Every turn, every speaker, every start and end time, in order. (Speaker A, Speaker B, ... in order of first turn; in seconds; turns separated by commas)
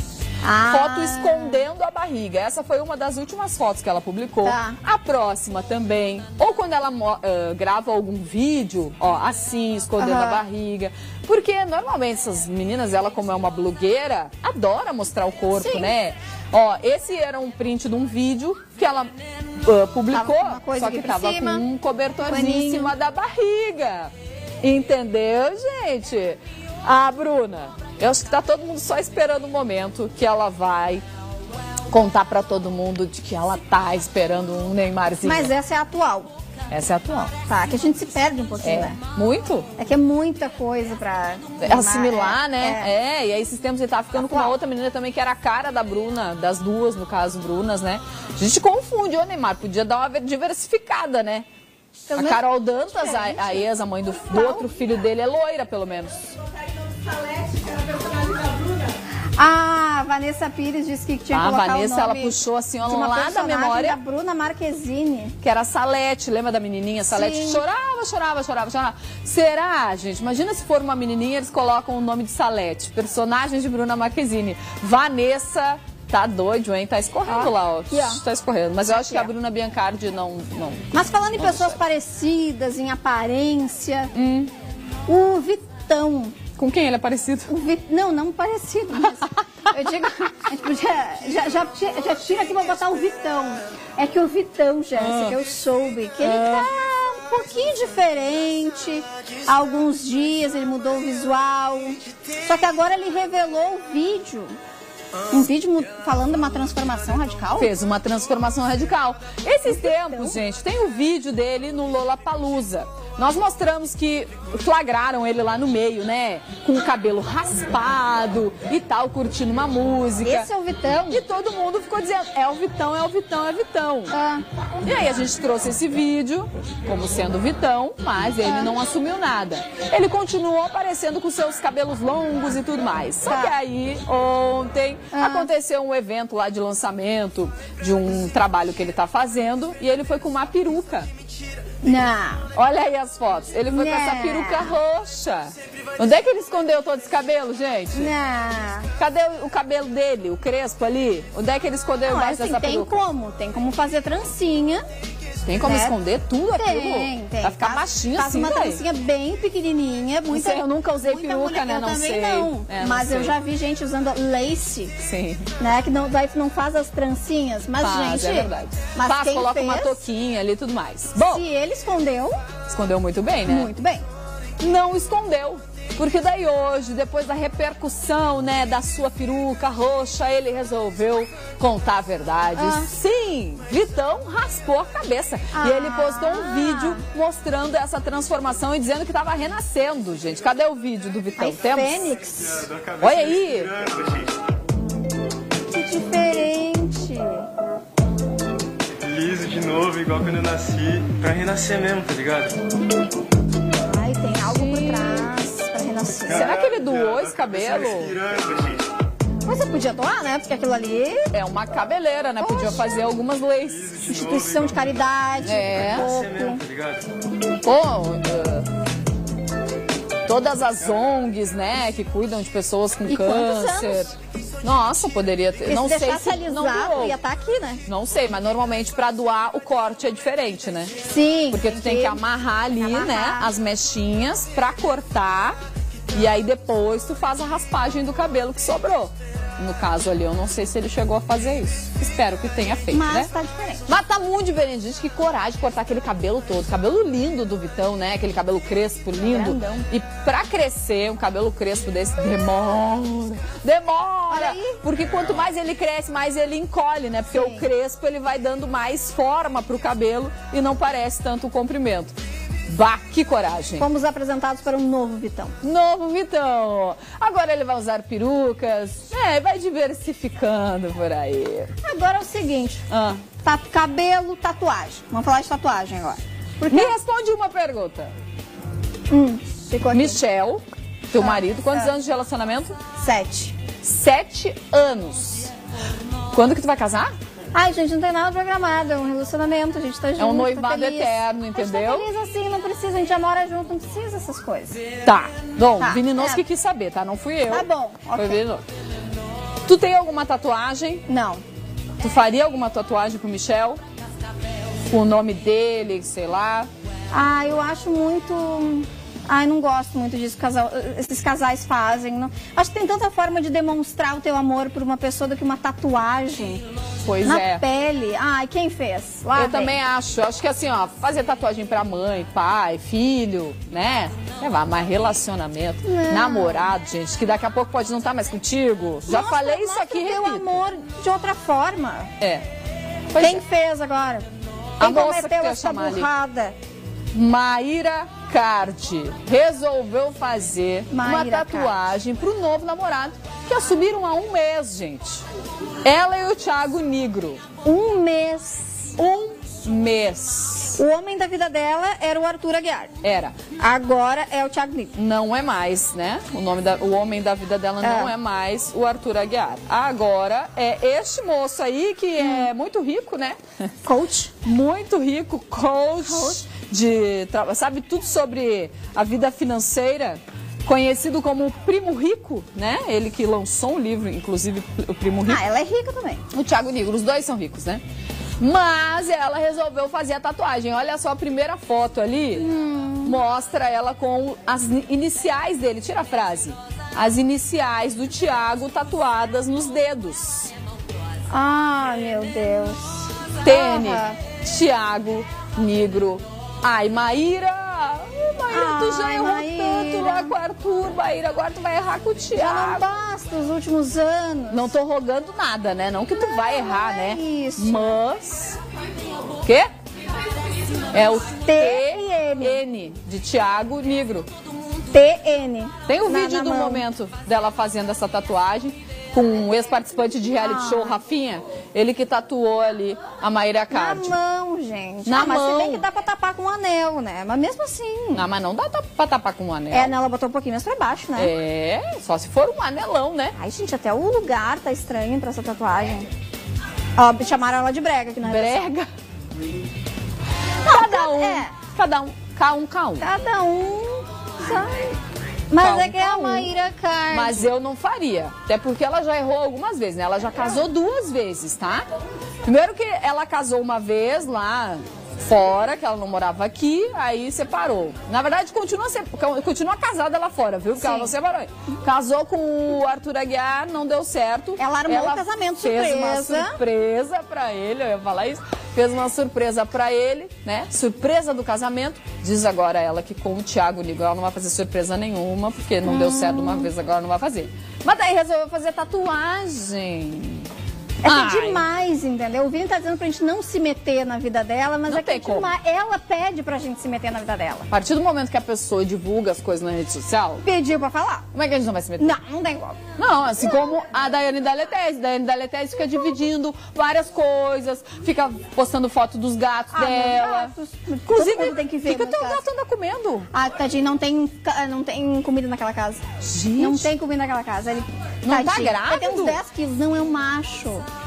Speaker A: 0.4-1.6, Speaker B: 0.7-31.0, Speaker A: 4.4-4.8, Speaker A: 10.0-10.4, Speaker A: 15.6-15.9, Speaker A: 20.1-21.6, Speaker A: 22.2-22.9, Speaker B: 31.9-35.5, Speaker A: 35.2-36.3, Speaker B: 36.7-37.3, Speaker A: 37.5-39.0, Speaker B: 38.6-39.7, Speaker A: 39.8-42.9, Speaker B: 41.6-51.5, Speaker A: 44.2-44.5, Speaker A: 52.1-53.7, Speaker B: 52.1-56.3, Speaker A: 54.2-54.6, Speaker A: 59.4-65.3, Speaker B: 61.3-64.0, Speaker B: 65.4-81.8, Speaker A: 67.1-67.6, Speaker A: 77.3-78.2, Speaker A: 78.9-79.3, Speaker A: 80.9-84.1, Speaker B: 84.1-84.5, Speaker A: 85.0-86.4, Speaker B: 86.6-87.5, Speaker A: 87.5-104.5, Speaker B: 95.0-95.4, Speaker B: 96.2-96.8, Speaker A: 105.3-107.7, Speaker B: 107.6-120.5, Speaker A: 109.8-110.3, Speaker A: 120.2-121.2, Speaker B: 121.1-124.2, Speaker A: 124.1-124.4, Speaker B: 124.8-141.1, Speaker A: 128.4-128.7, Speaker A: 133.3-133.5, Speaker A: 135.1-135.5, Speaker A: 141.8-142.5, Speaker B: 142.5-148.1, Speaker A: 143.7-144.7, Speaker A: 147.9-148.9, Speaker B: 149.0-153.0, Speaker A: 152.0-154.8, Speaker B: 155.4-158.8, Speaker A: 155.6-155.9, Speaker A: 156.5-164.9, Speaker B: 160.3-163.3, Speaker B: 165.0-165.5, Speaker A: 165.6-170.0, Speaker B: 167.8-171.4, Speaker A: 171.2-172.3, Speaker B: 172.7-173.7, Speaker A: 173.4-174.1, Speaker B: 174.6-192.1, Speaker A: 182.6-182.9, Speaker A: 185.5-187.0, Speaker A: 191.4-192.7, Speaker C: 192.7-193.0, Speaker B: 193.0-193.9, Speaker A: 195.7-197.5, Speaker C: 199.1-202.5, Speaker A: 203.8-206.5, Speaker B: 204.4-205.3, Speaker B: 206.3-208.2, Speaker C: 208.3-208.8, Speaker A: 209.4-211.3, Speaker B: 211.3-214.0, Speaker A: 212.4-212.8, Speaker A: 214.0-216.6, Speaker B: 215.4-216.1, Speaker C: 216.2-217.0, Speaker B: 217.6-218.7, Speaker B: 220.2-227.2, Speaker A: 223.1-224.1, Speaker A: 225.7-227.8, Speaker B: 227.9-230.9, Speaker A: 231.0-232.2, Speaker B: 231.5-235.6, Speaker A: 232.8-233.5, Speaker B: 236.1-243.3, Speaker A: 242.9-243.8, Speaker B: 243.9-262.1, Speaker A: 249.2-249.8, Speaker A: 254.3-254.8, Speaker A: 257.3-257.6, Speaker B: 262.7-263.9, Speaker A: 263.8-265.5, Speaker B: 265.6-271.7, Speaker A: 271.8-272.8, Speaker B: 272.9-273.2, Speaker A: 273.4-276.9, Speaker B: 276.7-278.1, Speaker A: 279.1-280.2, Speaker B: 279.9-282.8, Speaker A: 281.2-281.9, Speaker A: 283.0-283.6, Speaker B: 283.8-285.5, Speaker B: 286.3-287.1, Speaker A: 287.5-294.8, Speaker B: 290.2-292.1, Speaker B: 295.0-298.6, Speaker A: 295.8-296.4, Speaker A: 297.5-298.4, Speaker B: 299.6-301.0, Speaker A: 301.1-301.4, Speaker B: 302.0-303.8, Speaker B: 304.8-306.7, Speaker A: 307.1-316.6, Speaker B: 317.0-317.6, Speaker A: 317.2-319.8, Speaker B: 319.3-330.6, Speaker A: 325.8-326.7, Speaker A: 329.1-332.1, Speaker B: 332.2-332.4, Speaker B: 333.1-333.4, Speaker A: 333.2-334.3, Speaker A: 334.8-336.6, Speaker B: 334.8-336.1, Speaker B: 337.1-345.2, Speaker A: 340.9-341.9, Speaker B: 345.8-347.4, Speaker A: 347.6-349.0, Speaker B: 349.0-350.8, Speaker A: 350.8-352.9, Speaker B: 353.0-353.4, Speaker A: 353.6-354.9, Speaker B: 354.9-363.4, Speaker A: 357.8-358.1, Speaker A: 362.2-362.5, Speaker A: 363.8-364.3, Speaker B: 364.4-375.4, Speaker A: 366.0-366.4, Speaker A: 375.2-376.2, Speaker B: 376.3-377.8, Speaker B: 378.4-382.5, Speaker A: 382.3-383.2, Speaker B: 383.0-390.5, Speaker A: 391.3-394.2, Speaker B: 393.4-402.8, Speaker A: 398.5-400.3, Speaker A: 402.3-404.7, Speaker B: 404.5-408.6, Speaker A: 406.2-408.0, Speaker B: 409.4-409.7, Speaker B: 410.9-414.3, Speaker A: 411.4-412.6, Speaker A: 414.9-416.8, Speaker B: 415.9-424.1, Speaker A: 420.4-421.0, Speaker A: 423.7-428.2, Speaker B: 425.0-425.9, Speaker B: 428.1-429.9, Speaker A: 429.7-431.3, Speaker B: 431.1-433.4, Speaker A: 433.4-436.1, Speaker A: 437.0-438.7, Speaker B: 438.2-438.9, Speaker A: 440.6-441.5, Speaker B: 440.6-443.1, Speaker A: 443.0-445.0, Speaker A: 445.5-447.5, Speaker B: 445.6-446.5, Speaker B: 447.1-451.8, Speaker B: 452.4-480.5, Speaker A: 460.8-461.1, Speaker A: 464.6-466.6, Speaker A: 475.8-476.7, Speaker A: 481.0-487.7, Speaker B: 481.0-481.7, Speaker B: 484.9-485.5, Speaker B: 487.7-490.4, Speaker A: 490.4-491.2, Speaker B: 491.3-492.2, Speaker A: 492.0-492.8, Speaker B: 493.0-500.5, Speaker A: 499.7-502.4, Speaker B: 501.1-503.3, Speaker A: 503.3-506.0, Speaker B: 506.2-506.9, Speaker A: 506.6-510.9, Speaker B: 508.2-509.4